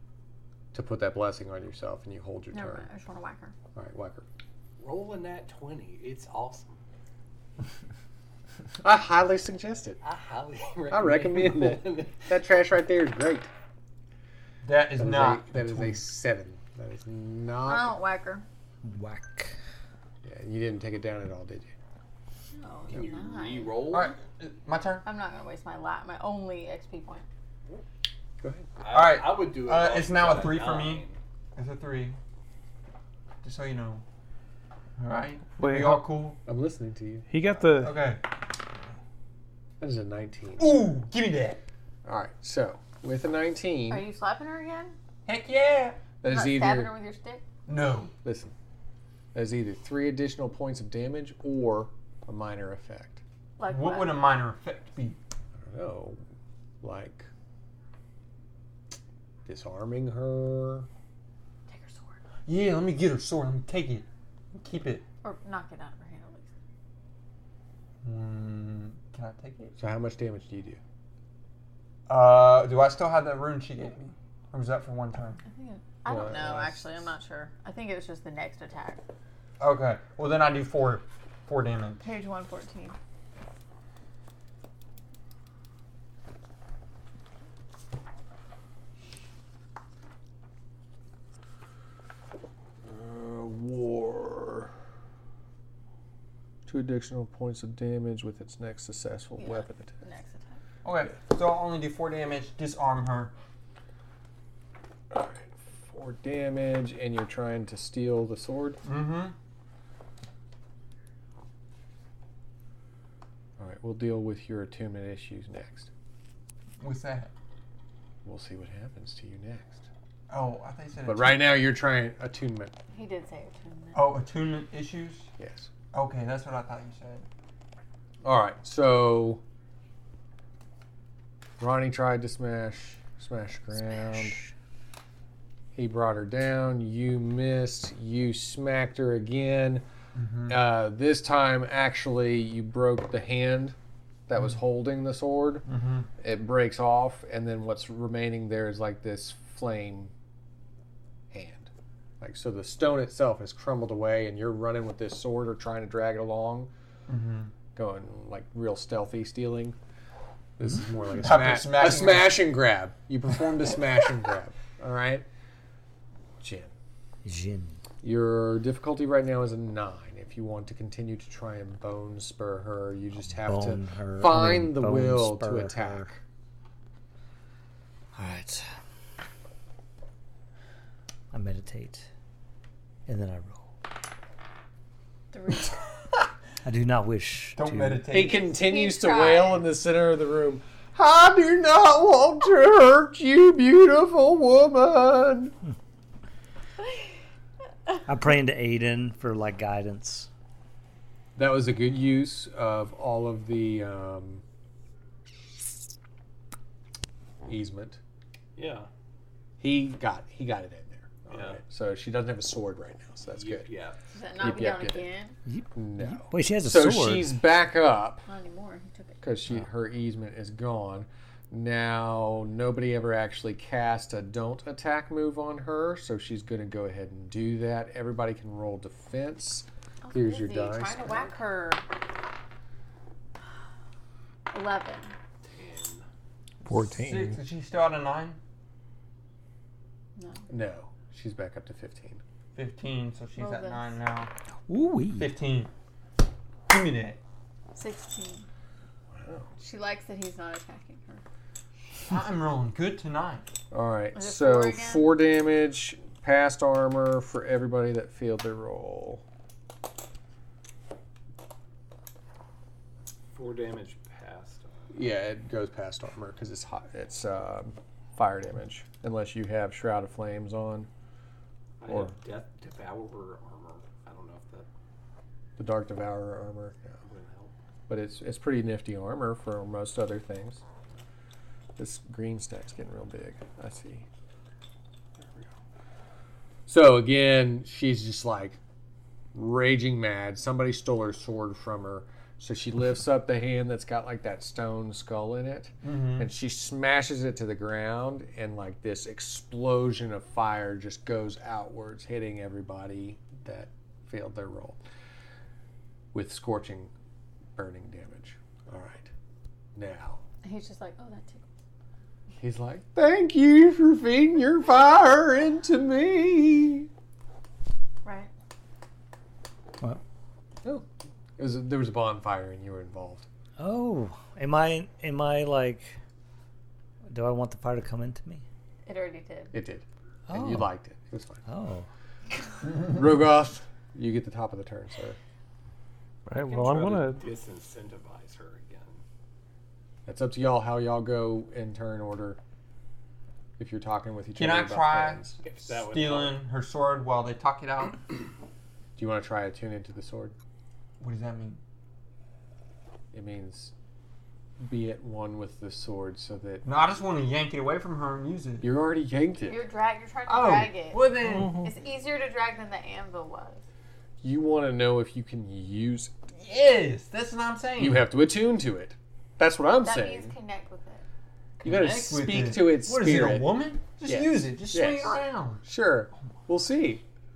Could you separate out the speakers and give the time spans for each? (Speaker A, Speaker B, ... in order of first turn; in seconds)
Speaker A: 0.7-2.9, 3.8-4.3, 8.8-10.0, 10.9-13.5, 15.0-17.9, 20.2-21.7, 28.4-28.7, 36.5-37.7, 39.8-40.9, 42.0-44.0, 46.2-46.9, 48.2-48.5, 49.3-53.2, 55.6-56.2, 56.8-57.3, 59.5-60.9, 69.8-70.8, 76.1-77.1, 92.8-94.7, 96.7-99.9, 105.1-108.8, 113.6-115.9, 118.2-119.9, 121.0-122.7, 125.4-125.7, 128.2-129.4, 131.6-134.4, 135.8-139.8, 140.5-143.8, 144.3-145.7, 146.2-150.1, 151.3-156.7, 157.7-159.8, 160.6-165.3, 166.4-166.7, 168.0-176.2, 188.1-195.6, 201.4-204.4, 207.4-208.0, 209.6-213.7, 214.4-215.1, 215.8-218.2, 219.2-231.3, 240.5-242.2, 249.1-249.5, 253.7-259.2, 264.9-270.9, 271.9-272.1, 275.6-277.0, 277.9-280.6, 281.8-284.1, 286.7-288.6, 289.3-304.8, 306.1-306.9, 307.6-309.1, 309.8-310.2, 312.4-316.9, 321.4-323.3, 329.5-331.4, 332.7-335.2, 340.1-342.4, 343.6-345.4, 349.0-350.4, 353.1-353.7, 354.6-356.6, 358.6-359.6, 364.2-366.1, 367.8-370.3, 371.6-377.0
Speaker B: 2.5-3.5, 17.6-18.4, 22.5-23.8, 25.0-27.3, 43.9-45.0, 46.2-47.4, 53.6-54.2, 61.7-62.2, 65.2-66.5, 75.5-79.0, 82.0-83.0, 99.4-100.6, 122.9-124.2, 185.3-185.8, 188.2-189.6, 214.1-215.4, 218.3-219.2, 230.0-231.8, 234.5-235.1, 240.2-240.5, 243.4-244.0, 247.8-248.5, 249.6-251.2, 254.2-255.1, 310.4-311.5, 318.0-318.3, 328.9-329.6, 359.4-363.6, 369.8-371.1
Speaker C: 4.8-6.8, 10.0-12.3, 22.9-24.2, 28.8-31.2, 208.6-208.9, 211.3-211.6, 213.3-214.0, 235.4-236.1, 263.3-264.8, 271.8-274.7, 277.0-277.5, 336.4-339.0, 345.4-346.4
Speaker D: 14.6-16.0, 23.9-25.1, 28.9-31.0, 31.6-32.2, 33.4-34.0, 35.0-36.4, 37.8-38.2, 40.6-41.6, 45.3-46.0, 47.7-48.1, 53.7-55.2, 62.5-65.0, 68.0-69.8, 72.1-75.4, 79.6-82.0, 100.8-103.3, 108.8-109.3, 116.8-117.3, 120.3-121.5, 123.9-125.3, 125.9-127.3, 140.2-140.6, 145.7-146.1, 157.1-157.5, 161.1-162.4, 187.6-188.4, 236.7-238.4, 242.6-244.3, 245.1-245.7, 246.7-247.2, 252.1-253.5, 295.8-296.3, 344.4-348.0, 351.0-351.6, 356.6-358.7, 360.3-361.6, 366.4-368.1, 371.6-375.6
Speaker E: 18.8-19.6, 167.2-167.8, 173.2-176.1, 178.2-178.7, 181.3-182.1, 183.1-183.7, 186.6-188.1, 198.1-200.3, 215.5-217.3, 244.7-245.3, 323.6-325.9, 327.1-328.4, 330.3-330.7, 331.5-331.9
Speaker F: 35.6-36.1, 37.3-38.1, 236.7-237.4, 336.3-337.2, 361.2-361.7